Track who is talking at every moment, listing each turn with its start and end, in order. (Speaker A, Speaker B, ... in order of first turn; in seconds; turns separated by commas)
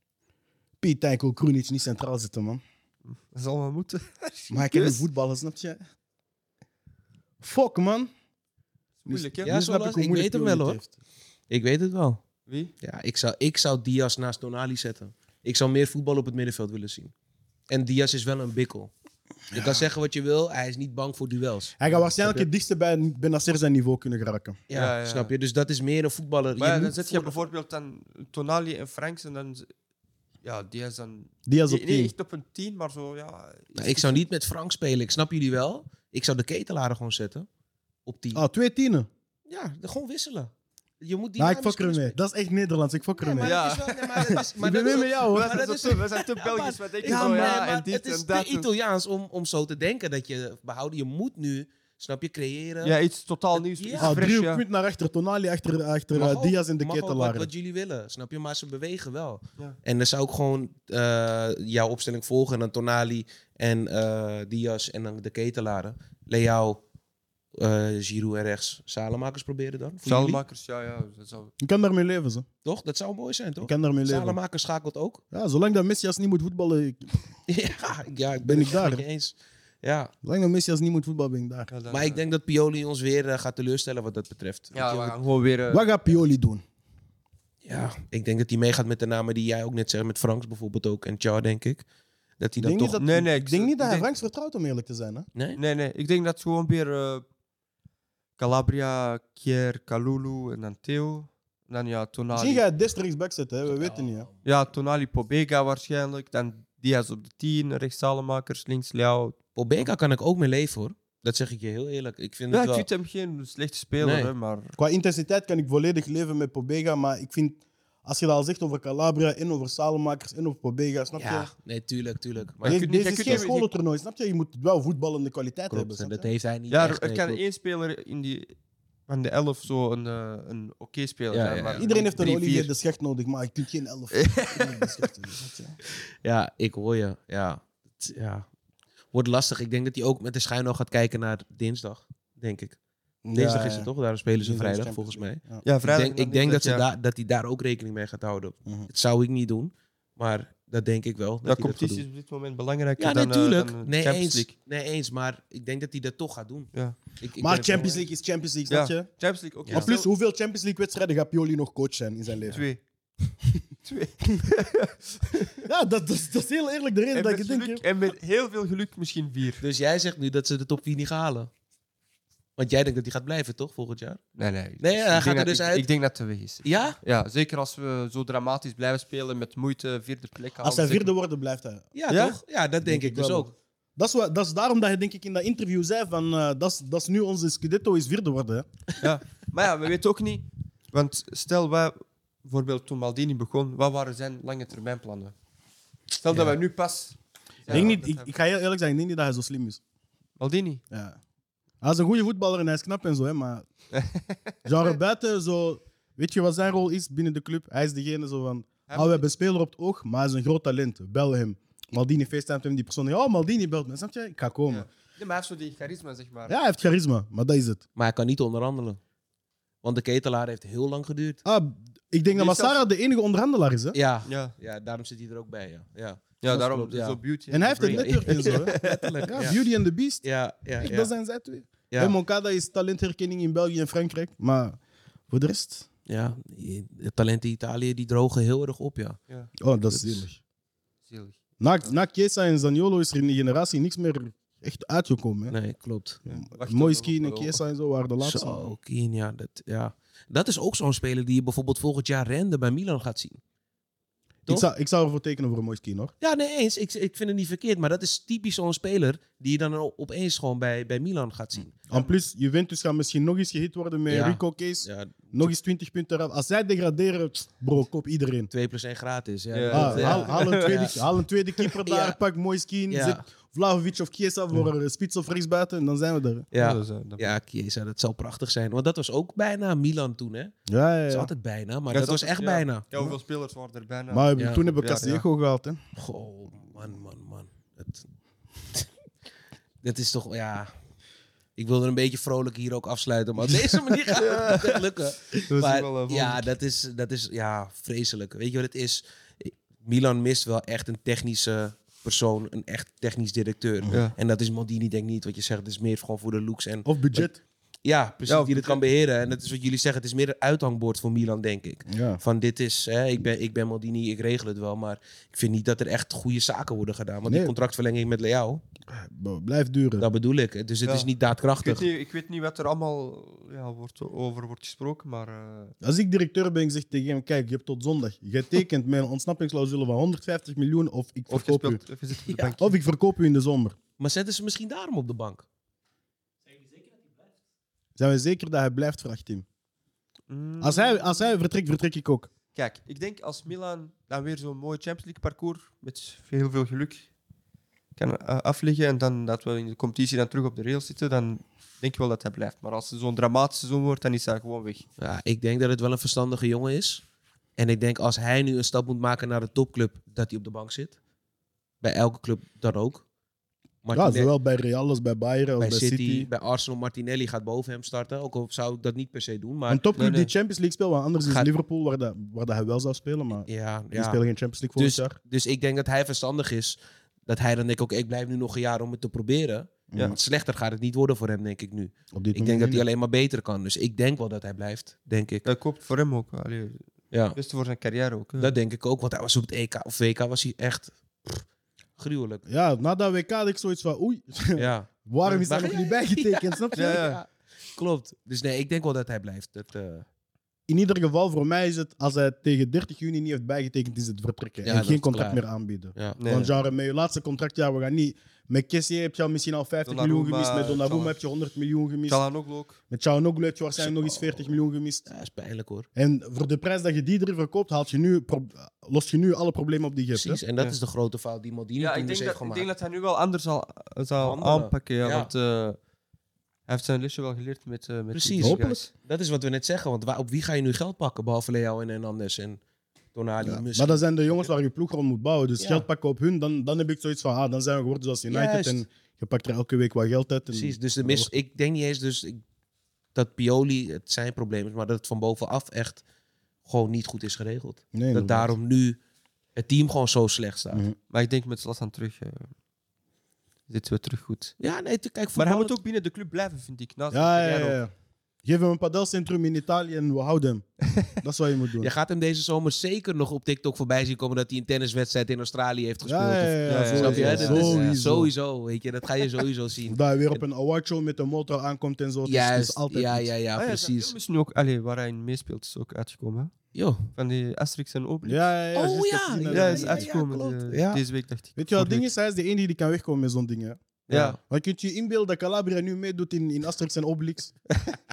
Speaker A: 0.8-2.6, Speaker B: 3.0-5.0, Speaker A: 4.5-5.8, Speaker A: 7.4-8.1, Speaker B: 9.0-9.5, Speaker A: 9.1-10.9, Speaker C: 9.4-10.8, Speaker C: 11.5-12.2, Speaker B: 12.4-12.7, Speaker C: 12.8-17.1, Speaker C: 17.7-18.9, Speaker A: 19.5-19.9, Speaker C: 19.5-21.8, Speaker A: 21.8-24.6, Speaker B: 21.9-22.5, Speaker C: 24.7-27.4, Speaker B: 24.7-25.3, Speaker B: 26.6-29.7, Speaker B: 30.4-34.2, Speaker A: 31.4-32.1, Speaker C: 33.7-37.5, Speaker C: 38.0-38.4, Speaker A: 38.3-39.1, Speaker C: 39.5-42.1, Speaker A: 41.4-43.6, Speaker C: 43.2-53.0, Speaker B: 43.4-48.7, Speaker A: 44.2-45.6, Speaker B: 52.8-54.6, Speaker C: 53.5-54.2, Speaker A: 54.0-57.5, Speaker C: 56.1-66.8, Speaker C: 67.5-70.4, Speaker B: 70.0-71.5, Speaker A: 71.6-72.5, Speaker C: 72.6-75.2, Speaker A: 73.6-74.4, Speaker A: 75.3-77.2, Speaker C: 77.5-80.1, Speaker A: 78.4-79.0, Speaker A: 80.2-81.7, Speaker B: 81.7-82.2, Speaker C: 81.9-85.2, Speaker B: 84.7-85.9, Speaker A: 85.7-86.6, Speaker C: 87.6-91.8, Speaker C: 92.4-93.0, Speaker A: 92.6-95.3, Speaker B: 93.0-94.1, Speaker B: 95.5-97.2, Speaker B: 98.4-102.6, Speaker A: 102.3-104.3, Speaker C: 103.7-104.4, Speaker B: 104.4-109.4, Speaker C: 109.5-112.8, Speaker B: 112.5-114.8, Speaker C: 114.0-114.3, Speaker A: 114.8-121.5, Speaker C: 121.2-123.4, Speaker B: 122.6-123.7, Speaker A: 122.6-126.3, Speaker C: 125.7-127.4, Speaker B: 126.7-128.5, Speaker B: 129.1-132.7, Speaker C: 131.3-131.8, Speaker A: 131.8-135.8, Speaker B: 134.1-135.1, Speaker C: 136.2-138.4, Speaker C: 139.1-142.8, Speaker A: 143.2-143.9, Speaker C: 143.3-152.0, Speaker A: 144.4-145.6, Speaker B: 145.6-146.8, Speaker B: 151.4-154.5, Speaker C: 153.0-158.0, Speaker B: 156.7-157.0, Speaker A: 157.4-159.1, Speaker B: 158.7-160.1, Speaker A: 159.7-162.7, Speaker B: 162.5-162.8, Speaker B: 163.8-165.7, Speaker A: 165.6-167.8, Speaker B: 167.1-169.6, Speaker C: 169.6-171.5, Speaker C: 172.6-174.2, Speaker B: 174.3-181.1, Speaker C: 174.8-175.9, Speaker C: 176.6-177.0, Speaker A: 180.6-181.9, Speaker C: 181.9-183.5, Speaker B: 182.1-182.4, Speaker A: 182.8-188.7, Speaker B: 189.0-195.3, Speaker B: 196.2-198.3, Speaker A: 197.7-199.8, Speaker B: 200.4-200.8, Speaker A: 200.9-201.2, Speaker A: 201.8-203.7, Speaker B: 203.9-204.5, Speaker A: 204.6-214.9, Speaker B: 208.9-209.2, Speaker B: 214.7-216.6, Speaker A: 216.5-217.8, Speaker C: 217.9-219.0, Speaker C: 219.8-221.4, Speaker A: 221.4-224.0, Speaker B: 222.3-222.8, Speaker C: 223.9-227.2, Speaker B: 224.2-224.5, Speaker B: 226.4-229.4, Speaker A: 227.5-228.8, Speaker C: 227.8-229.6, Speaker A: 229.3-230.2, Speaker C: 230.2-231.1, Speaker A: 230.8-235.9, Speaker C: 236.1-239.2, Speaker A: 239.6-240.4, Speaker B: 241.1-241.9, Speaker A: 241.6-245.5, Speaker C: 245.5-246.2, Speaker B: 246.3-247.6, Speaker A: 246.3-248.6, Speaker C: 248.2-253.4, Speaker A: 254.5-256.1, Speaker C: 256.2-261.8, Speaker A: 261.9-268.5, Speaker C: 264.1-265.5, Speaker C: 268.5-271.0, Speaker B: 269.5-270.9, Speaker A: 269.7-276.5, Speaker C: 271.9-272.2, Speaker C: 272.9-273.2, Speaker C: 276.5-280.6, Speaker B: 276.5-277.3, Speaker A: 280.7-281.3, Speaker C: 281.1-282.9, Speaker B: 281.9-285.2, Speaker A: 284.1-285.8, Speaker C: 284.4-284.6, Speaker C: 285.9-288.1, Speaker C: 289.8-290.7, Speaker C: 291.6-307.3, Speaker B: 294.1-296.4, Speaker A: 306.8-307.4, Speaker C: 307.8-318.6, Speaker B: 308.3-308.8, Speaker A: 311.9-312.2, Speaker A: 317.2-317.5, Speaker A: 318.9-320.1, Speaker C: 320.0-321.9, Speaker B: 320.8-325.7, Speaker A: 325.8-331.8, Speaker B: 331.3-332.8, Speaker C: 332.3-332.6, Speaker A: 332.4-333.8, Speaker C: 334.0-335.4, Speaker A: 338.0-339.4, Speaker B: 340.3-341.2, Speaker A: 340.6-342.3, Speaker B: 342.5-347.1, Speaker B: 347.9-354.8, Speaker C: 355.0-357.0, Speaker C: 357.6-361.0, Speaker C: 361.8-363.0, Speaker C: 363.8-364.3, Speaker A: 363.9-366.3, Speaker C: 365.6-369.8, Speaker A: 369.7-375.2, Speaker B: 369.9-370.3, Speaker C: 371.2-371.5, Speaker C: 373.4-374.2, Speaker C: 374.8-385.4, Speaker A: 379.9-380.2, Speaker A: 382.1-382.8, Speaker B: 385.4-388.5, Speaker C: 387.1-387.4, Speaker C: 388.4-391.4, Speaker C: 392.0-392.4, Speaker A: 392.4-397.1, Speaker C: 394.6-394.9, Speaker C: 395.4-400.1, Speaker B: 396.8-397.2, Speaker A: 400.7-412.2, Speaker C: 404.6-405.4, Speaker B: 406.2-406.5, Speaker B: 409.9-411.2, Speaker B: 412.1-412.8, Speaker A: 412.9-415.1, Speaker C: 413.8-414.5, Speaker C: 415.1-415.9, Speaker A: 415.9-420.4, Speaker C: 420.1-422.7, Speaker B: 421.8-425.8, Speaker C: 424.2-425.3, Speaker B: 426.7-428.9, Speaker C: 428.1-432.6, Speaker A: 428.4-428.8, Speaker C: 433.1-434.5, Speaker A: 433.4-441.3, Speaker C: 435.6-435.9, Speaker C: 438.3-438.8, Speaker C: 440.5-442.4, Speaker C: 443.1-446.0, Speaker C: 446.6-449.0, Speaker A: 447.9-448.5, Speaker C: 449.6-450.8, Speaker B: 451.1-452.5, Speaker B: 453.7-454.5, Speaker C: 454.6-455.7, Speaker B: 455.4-457.8, Speaker A: 457.1-457.9, Speaker A: 458.4-461.9, Speaker C: 461.8-470.4, Speaker A: 466.0-468.3, Speaker B: 466.7-468.0, Speaker A: 469.9-473.3, Speaker C: 472.2-474.1, Speaker B: 473.6-476.5, Speaker C: 476.7-477.1, Speaker B: 477.1-478.4, Speaker A: 478.2-480.1, Speaker C: 478.7-481.0, Speaker B: 479.5-482.1, Speaker A: 481.6-487.5, Speaker B: 484.1-484.4, Speaker C: 484.1-484.4